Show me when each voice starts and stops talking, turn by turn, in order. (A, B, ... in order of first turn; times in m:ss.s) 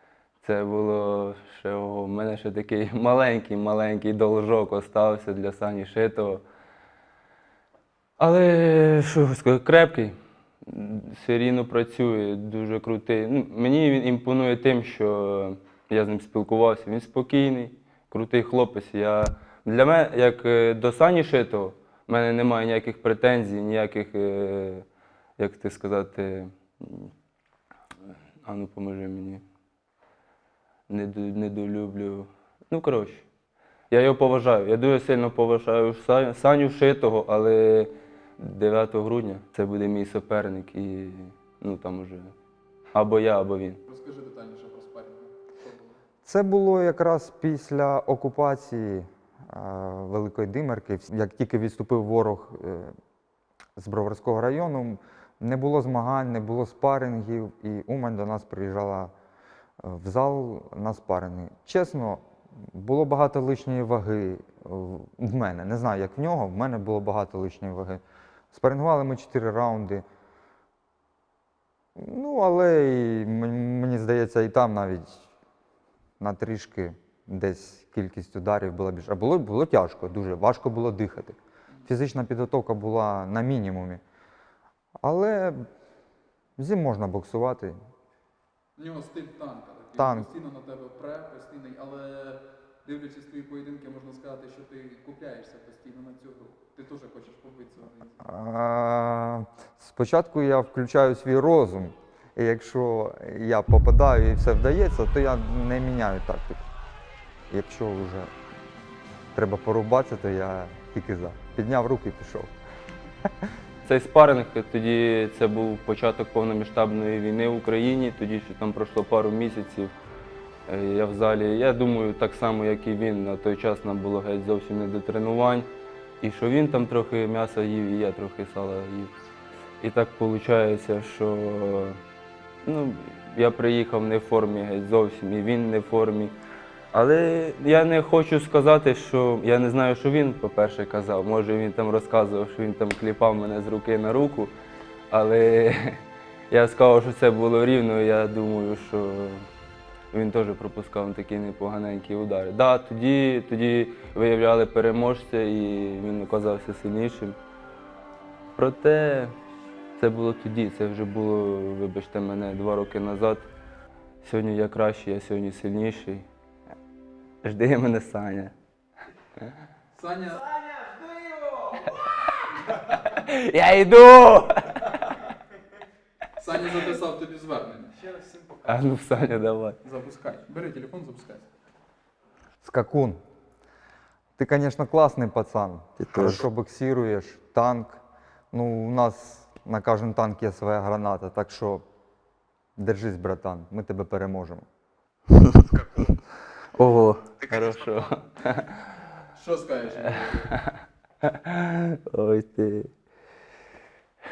0:00.4-0:06.4 A
0:08.2-0:24.8 A
0:25.4-0:27.1 A
0:28.4-0:29.4 A
0:30.9-0:33.2 A
0:33.9-0:42.3 A
0:42.9-0:43.8 A
0:43.9-0:46.0 B
0:46.2-0:52.9 C
0:53.8-0:59.1 C
0:59.8-1:10.0 C
1:12.0-1:15.3 C
1:16.2-1:24.0 C
1:25.0-1:25.7 C
1:26.6-1:27.8 C
1:28.8-1:38.2 B
1:30.0-1:30.3 C
1:38.2-1:46.7 C
1:47.5-1:48.3 C
1:49.4-1:52.5 C
1:53.8-1:59.9 A
2:00.7-2:05.7 A
2:06.2-2:09.1 A
2:09.8-2:12.0 A
2:12.6-2:16.4 A
2:16.9-2:24.5 A
2:25.1-2:29.5 A
2:30.1-2:37.4 A
2:38.6-2:39.4 A
2:40.0-2:43.5 A
2:44.2-2:46.3 A
2:47.4-2:48.5 A
2:49.9-2:50.6 B
2:53.2-2:54.8 A
2:56.4-2:58.2 B
2:58.6-2:59.8 A
2:59.8-3:01.5 B
3:02.6-3:03.2 C
3:04.4-3:11.8 C
3:12.8-3:14.6 C
3:16.8-3:18.7 A
3:19.3-3:20.5 B
3:21.3-3:22.9 A